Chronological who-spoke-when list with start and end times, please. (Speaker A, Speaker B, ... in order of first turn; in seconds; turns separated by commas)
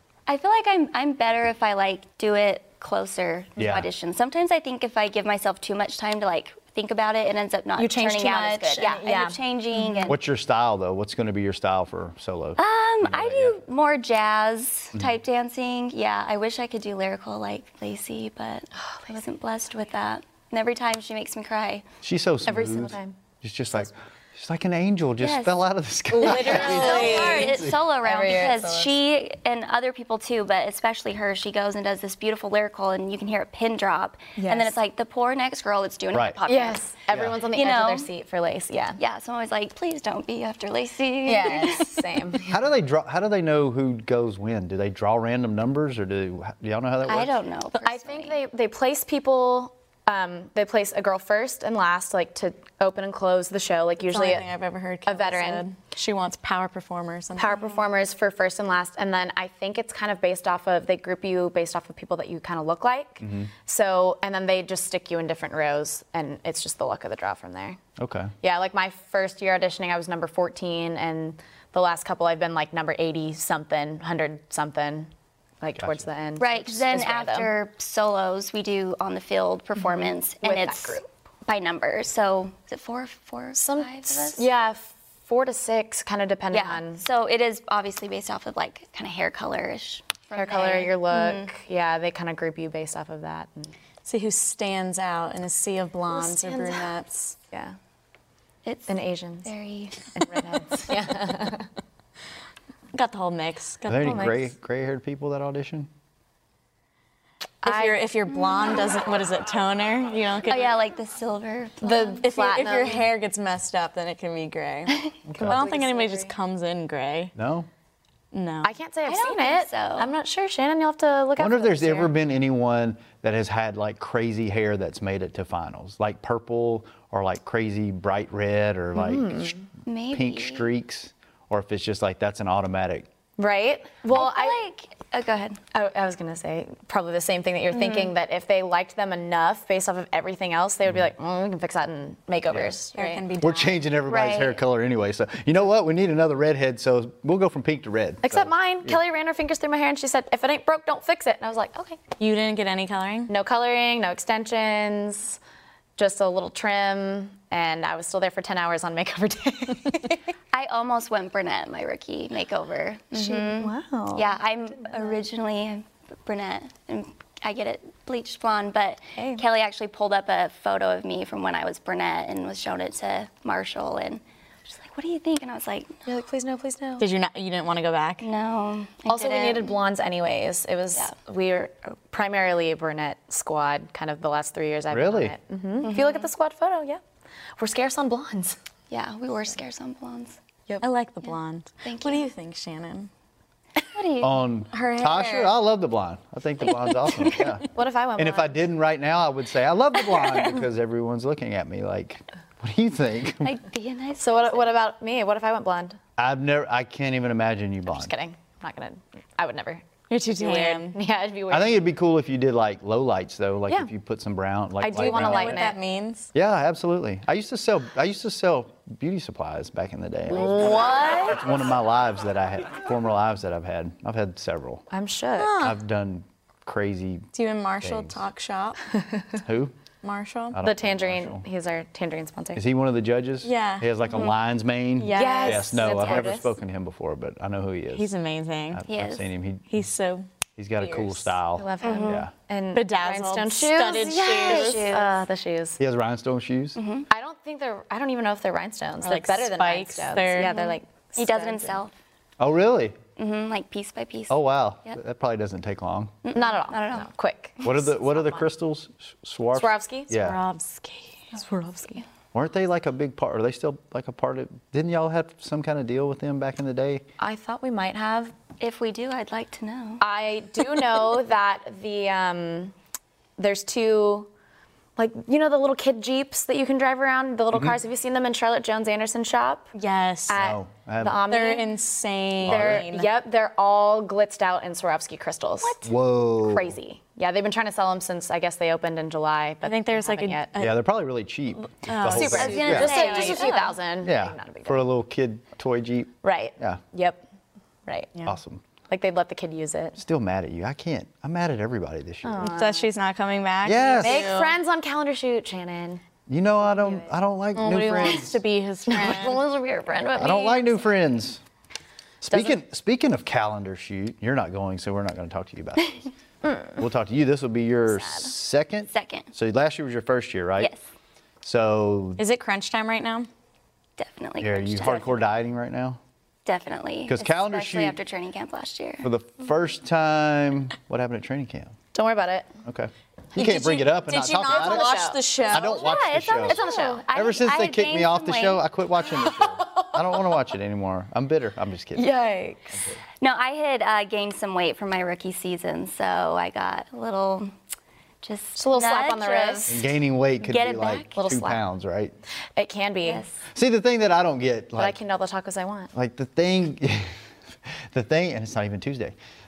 Speaker A: 0.3-10.2, Speaker B: 3.6-3.9, Speaker C: 7.8-10.1, Speaker B: 10.1-13.5, Speaker A: 12.6-21.8, Speaker C: 18.8-19.1, Speaker B: 22.0-27.8, Speaker C: 22.4-23.1, Speaker A: 25.2-25.6, Speaker D: 26.1-28.9, Speaker A: 26.2-36.8, Speaker C: 34.4-34.7, Speaker B: 36.1-36.4, Speaker C: 36.5-39.0, Speaker B: 37.1-37.4, Speaker A: 37.5-38.1, Speaker A: 39.0-42.1, Speaker C: 41.2-42.5, Speaker B: 42.5-47.4, Speaker A: 47.0-48.4, Speaker C: 47.7-54.5, Speaker D: 54.1-57.6, Speaker C: 55.0-55.6, Speaker C: 57.4-67.8, Speaker B: 63.2-63.5, Speaker B: 68.0-68.3, Speaker C: 68.4-75.1, Speaker C: 75.6-77.5, Speaker B: 75.8-76.0, Speaker A: 76.4-84.5, Speaker C: 79.8-81.0, Speaker C: 83.5-87.0, Speaker A: 86.5-91.5, Speaker C: 90.3-93.7, Speaker D: 94.0-97.3, Speaker C: 96.1-96.9, Speaker A: 98.6-100.1, Speaker C: 98.9-99.5, Speaker C: 100.1-101.7, Speaker D: 102.9-104.3, Speaker B: 103.9-105.9, Speaker C: 104.0-104.3, Speaker C: 107.6-108.0, Speaker D: 107.6-110.7, Speaker A: 110.5-112.8, Speaker C: 111.8-113.0, Speaker D: 112.2-117.3, Speaker B: 115.3-115.6, Speaker C: 115.4-116.3, Speaker B: 117.3-117.7, Speaker D: 118.3-118.7, Speaker C: 118.6-122.1, Speaker A: 119.0-120.1, Speaker B: 121.4-129.6, Speaker C: 128.9-129.6, Speaker A: 129.8-130.7, Speaker B: 130.1-133.1, Speaker C: 133.4-134.6, Speaker A: 134.1-135.6, Speaker C: 135.7-143.2, Speaker A: 137.7-138.1, Speaker B: 142.5-142.7, Speaker D: 142.9-143.8, Speaker B: 143.4-149.0, Speaker A: 144.1-144.6, Speaker C: 148.2-152.0, Speaker D: 152.2-153.3, Speaker C: 153.3-155.4, Speaker C: 156.0-160.2, Speaker A: 160.5-176.0, Speaker C: 163.1-164.3, Speaker C: 169.2-169.4, Speaker C: 176.1-177.1, Speaker D: 177.0-178.2, Speaker A: 178.2-179.8, Speaker C: 179.1-187.0, Speaker B: 184.9-185.3, Speaker A: 185.8-186.3, Speaker C: 187.6-188.6, Speaker A: 188.9-190.4, Speaker D: 190.8-193.1, Speaker A: 191.8-192.3, Speaker A: 193.9-194.3, Speaker B: 194.2-197.6, Speaker D: 194.7-195.5, Speaker C: 197.7-198.6, Speaker B: 198.2-203.5, Speaker A: 203.4-204.7, Speaker C: 204.2-206.0, Speaker B: 206.2-208.1, Speaker C: 207.9-211.9, Speaker D: 210.1-211.0, Speaker B: 211.5-215.7, Speaker C: 214.8-215.8, Speaker D: 214.9-216.3, Speaker B: 216.3-224.8, Speaker C: 220.4-221.3, Speaker D: 220.4-221.3, Speaker C: 224.9-225.6, Speaker D: 225.4-225.8, Speaker B: 225.6-227.3, Speaker D: 227.3-228.8, Speaker B: 227.8-228.2, Speaker B: 229.4-229.7, Speaker D: 230.0-230.6, Speaker B: 230.5-231.4, Speaker C: 230.6-232.6, Speaker B: 232.5-238.1, Speaker D: 233.4-233.9, Speaker D: 235.0-236.2, Speaker C: 235.1-236.5, Speaker D: 237.9-238.8, Speaker B: 238.7-239.8, Speaker A: 238.9-239.2, Speaker D: 239.7-240.2, Speaker B: 240.6-242.3, Speaker D: 240.8-241.3, Speaker C: 241.6-245.8, Speaker A: 241.8-242.2, Speaker D: 242.7-245.1, Speaker A: 244.3-245.0, Speaker B: 245.8-246.8, Speaker A: 246.8-247.1, Speaker C: 247.1-251.8, Speaker D: 249.0-250.7, Speaker A: 250.5-251.9, Speaker B: 252.4-253.0, Speaker A: 253.2-255.0, Speaker B: 254.3-256.1, Speaker A: 256.2-257.1, Speaker C: 256.3-258.4, Speaker B: 257.6-260.4, Speaker C: 259.5-260.2, Speaker D: 260.1-261.3, Speaker C: 261.3-262.0, Speaker B: 262.3-267.0, Speaker C: 267.2-268.3, Speaker A: 268.6-270.0, Speaker C: 270.0-272.7, Speaker C: 273.4-274.3, Speaker C: 275.0-279.7, Speaker D: 279.7-280.4, Speaker C: 280.3-281.7, Speaker B: 280.3-281.2, Speaker D: 281.3-283.1, Speaker B: 282.4-282.9, Speaker C: 282.4-285.8, Speaker B: 285.8-286.7, Speaker C: 286.4-290.5, Speaker D: 289.6-290.9, Speaker B: 290.6-293.2, Speaker D: 291.8-293.6, Speaker C: 292.1-294.9, Speaker A: 292.1-293.7, Speaker B: 294.0-296.8, Speaker C: 296.2-297.2, Speaker B: 298.2-298.6, Speaker C: 298.9-300.0, Speaker B: 299.9-302.5, Speaker C: 302.2-302.9, Speaker D: 302.4-304.6, Speaker B: 303.6-304.3, Speaker C: 303.9-306.0, Speaker B: 306.3-308.4, Speaker C: 306.6-307.1, Speaker D: 307.5-309.4, Speaker C: 308.9-310.8, Speaker B: 310.1-311.4, Speaker B: 312.2-316.0, Speaker C: 312.3-312.6, Speaker C: 316.4-316.7, Speaker B: 316.8-320.7, Speaker C: 317.9-318.3, Speaker A: 318.9-319.3, Speaker B: 321.4-322.2, Speaker D: 322.2-323.3, Speaker A: 324.0-325.2, Speaker B: 324.4-326.0, Speaker A: 326.4-329.1, Speaker B: 327.1-328.0, Speaker B: 329.0-331.7, Speaker C: 331.9-332.5, Speaker B: 332.6-342.1, Speaker D: 333.4-335.9, Speaker C: 333.4-335.2, Speaker A: 335.5-338.6, Speaker C: 336.4-337.0, Speaker C: 339.6-339.9, Speaker C: 341.9-342.8, Speaker B: 342.7-343.0, Speaker A: 343.2-347.5, Speaker A: 348.2-349.9, Speaker C: 348.6-349.7, Speaker B: 349.7-352.1, Speaker A: 350.4-351.1, Speaker C: 351.1-351.6, Speaker C: 352.6-353.2, Speaker A: 353.0-353.4, Speaker B: 353.5-355.0, Speaker C: 354.8-355.9, Speaker B: 355.9-357.1, Speaker B: 357.9-359.1